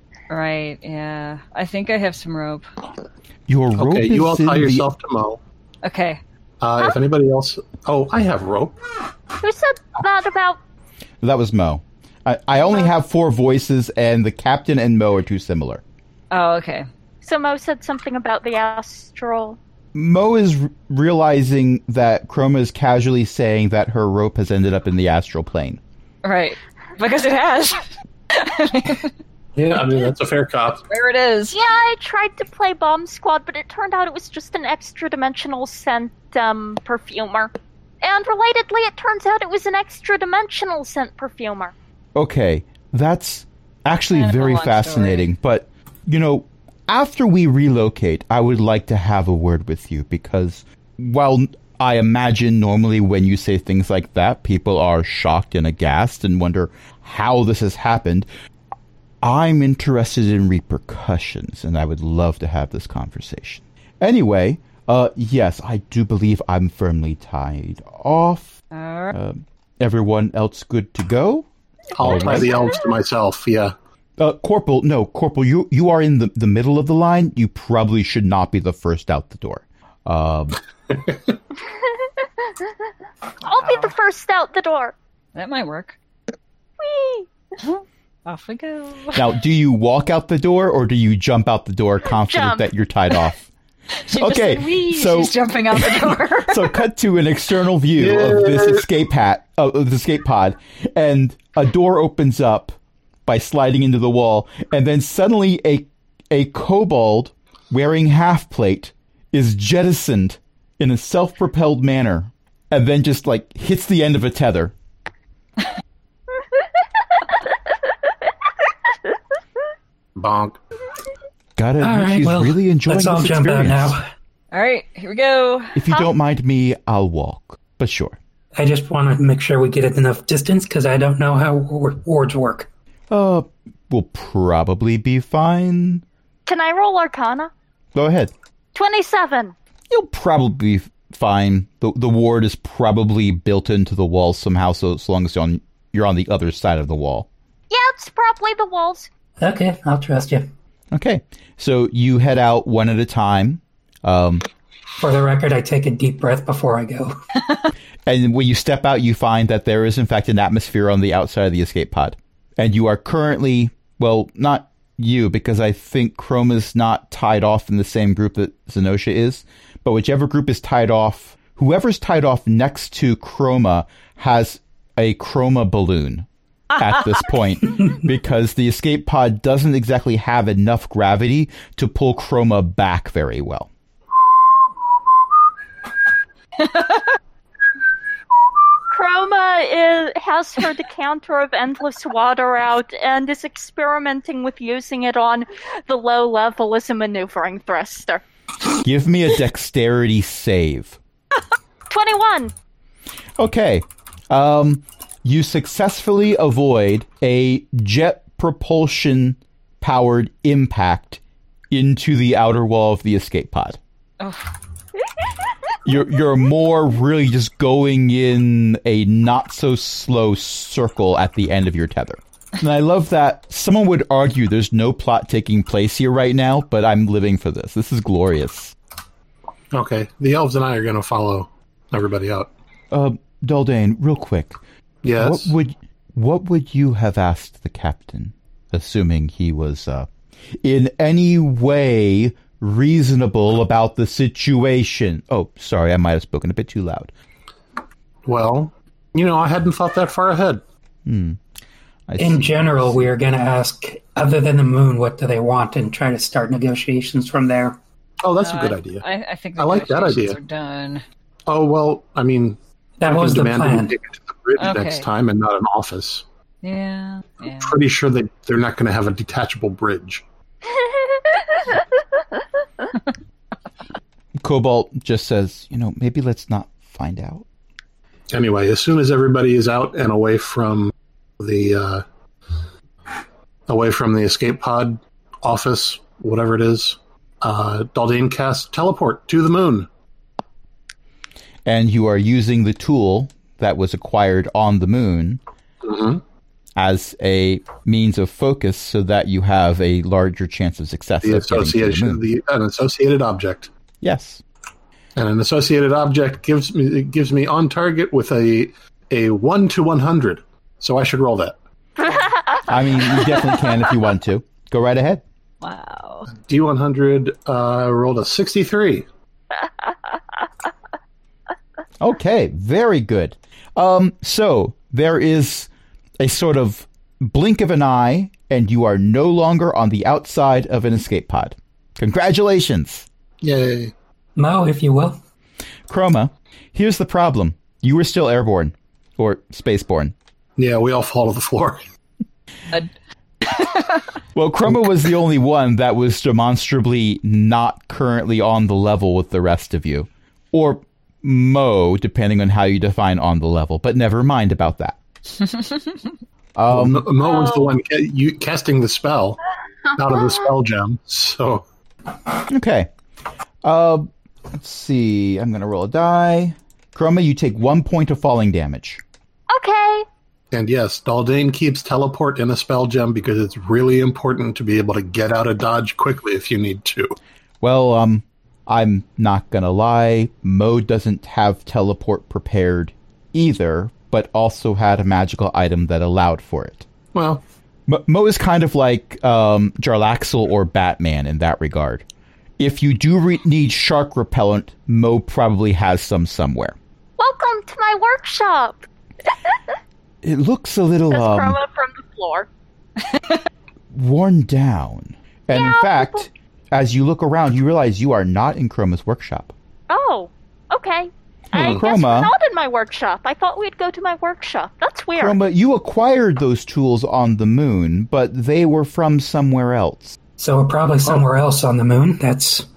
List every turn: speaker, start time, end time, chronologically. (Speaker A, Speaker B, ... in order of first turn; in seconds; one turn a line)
Speaker A: 0.3-2.7
Speaker B: 3.5-4.9
Speaker C: 3.8-5.4
Speaker A: 5.8-6.2
Speaker C: 6.6-8.8
Speaker D: 9.4-10.6
Speaker B: 11.2-15.8
Speaker A: 16.3-16.9
Speaker D: 17.2-19.6
Speaker B: 19.9-25.8
Speaker A: 26.2-29.1
Speaker C: 29.6-30.8
Speaker A: 30.9-31.6
Speaker D: 31.5-41.8
Speaker B: 42.1-58.3
Speaker A: 44.1-45.3
Speaker B: 59.2-68.6
Speaker A: 68.7-69.2
Speaker B: 69.1-72.6
Speaker C: 71.9-73.7
Speaker B: 74.2-80.6
Speaker D: 82.0-82.7
Speaker D: 83.4-85.0
Speaker A: 83.6-83.9
Speaker A: 85.3-86.0
Speaker D: 86.8-87.3
Speaker A: 87.6-89.3
Speaker B: 89.1-93.5
Speaker D: 92.2-92.7
Speaker A: 94.0-96.8
Speaker B: 94.1-114.7
Speaker C: 98.0-98.8
Speaker C: 120.2-120.6
Speaker B: 121.6-124.0
Speaker E: 121.8-124.1
Speaker A: 124.5-125.8
Speaker B: 125.8-128.2
Speaker E: 128.6-132.7
Speaker B: 133.1-136.0
Speaker D: 136.5-137.5
Speaker B: 137.9-138.3
Speaker D: 138.8-139.6
Speaker B: 139.9-147.3
Speaker D: 147.7-149.1
Speaker E: 149.4-150.5
Speaker B: 150.9-154.5
Speaker E: 155.0-157.1
Speaker B: 158.1-183.7
Speaker A: 186.6-187.0
Speaker D: 188.9-198.2
Speaker B: 198.8-201.0
Speaker D: 201.9-202.5
Speaker B: 203.4-213.8
Speaker A: 214.2-214.5
Speaker B: 215.8-228.8
Speaker C: 229.7-232.5
Speaker B: 232.9-234.6
Speaker C: 235.0-235.5
Speaker B: 235.2-240.1
Speaker B: 240.6-247.1
Speaker C: 248.3-250.6
Speaker B: 251.1-251.4
Speaker B: 252.1-253.1
Speaker E: 252.2-257.8
Speaker C: 258.2-259.0
Speaker A: 258.4-261.0
Speaker C: 259.6-260.4
Speaker C: 261.5-266.2
Speaker E: 263.0-263.9
Speaker A: 264.6-265.1
Speaker A: 266.6-267.8
Speaker C: 267.6-270.2
Speaker B: 274.4-277.4
Speaker C: 278.3-282.0
Speaker C: 283.7-289.9
Speaker B: 291.7-295.4
Speaker C: 295.8-296.2
Speaker B: 296.8-302.2
Speaker C: 301.2-303.7
Speaker B: 304.0-304.4
Speaker C: 305.2-311.6
Speaker D: 312.0-312.7
Speaker B: 312.7-315.2
Speaker A: 315.6-316.3
Speaker C: 316.3-319.1
Speaker B: 322.0-333.1
Speaker C: 333.4-333.9
Speaker E: 334.4-335.2
Speaker B: 335.9-340.1
Speaker C: 340.6-341.8
Speaker A: 343.4-344.1
Speaker B: 344.4-355.0
Speaker A: 355.4-355.9
Speaker B: 356.6-357.1
Speaker C: 356.7-359.4
Speaker D: 357.2-357.7
Speaker C: 360.0-361.6
Speaker B: 362.5-362.9
Speaker B: 363.6-369.0
Speaker D: 369.5-370.1
Speaker C: 370.5-377.2
Speaker B: 377.6-386.9
Speaker C: 387.1-387.4
Speaker B: 387.9-392.1
Speaker B: 392.6-396.8
Speaker D: 397.2-399.6
Speaker B: 400.2-401.6
Speaker D: 401.1-402.5
Speaker A: 403.1-403.4
Speaker B: 403.9-409.5
Speaker D: 405.5-406.3
Speaker D: 409.9-415.4
Speaker B: 411.5-412.3
Speaker C: 411.6-411.8
Speaker B: 415.2-420.2
Speaker E: 420.4-422.7